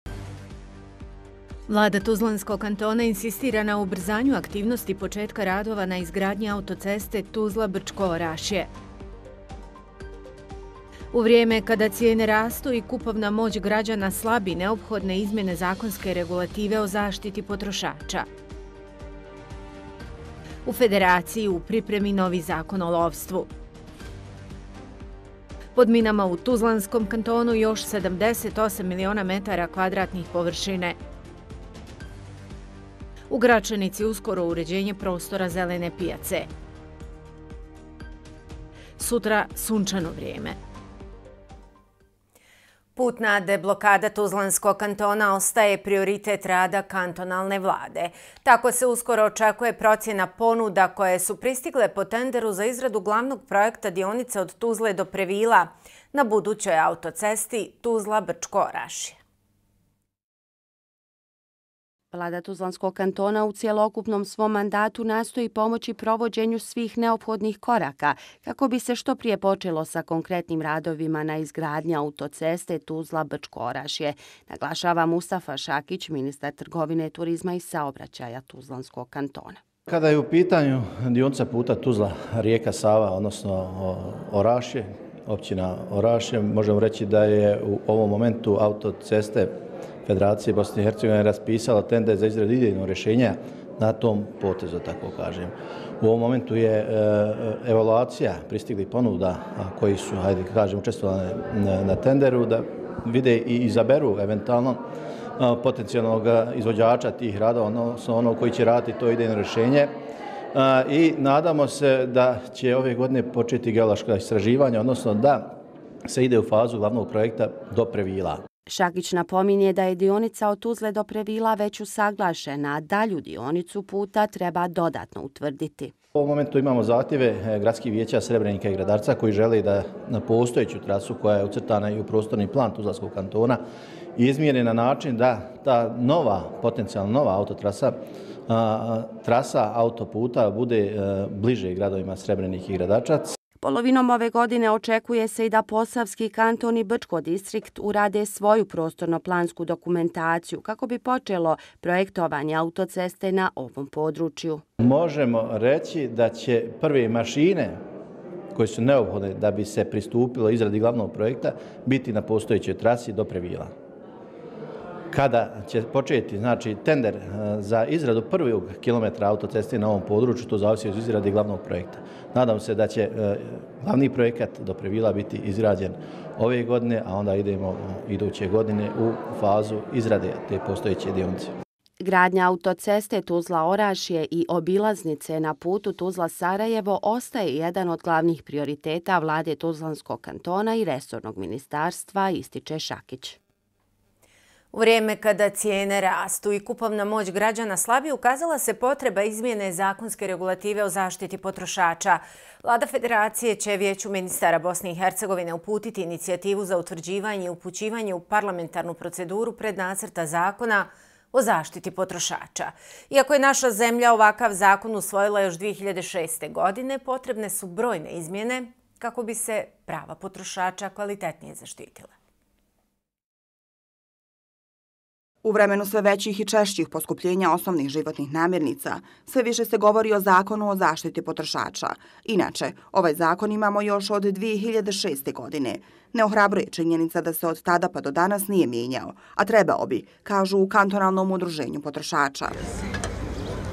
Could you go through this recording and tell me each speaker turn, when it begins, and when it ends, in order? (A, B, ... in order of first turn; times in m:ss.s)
0:01.7-0:08.7 A
0:11.1-0:18.3 A
0:20.6-0:23.5 A
0:25.8-0:31.0 A
0:33.3-0:36.5 A
0:39.0-0:40.6 A
0:43.0-0:59.2 A
1:02.1-1:19.6 B
1:19.9-1:29.5 C
1:30.0-1:44.8 C
1:45.4-1:49.9 C
1:50.5-1:55.5 C
1:56.0-1:58.4 C
1:58.7-2:05.9 B
2:06.1-2:13.6 C
2:14.2-2:18.0 C
2:18.5-2:23.4 C
2:23.6-2:34.6 B
2:34.8-2:37.8 C
2:38.5-2:43.7 C
2:45.1-3:01.5 C
3:02.0-3:13.4 B
3:14.7-3:42.1 A
3:45.4-4:02.7 D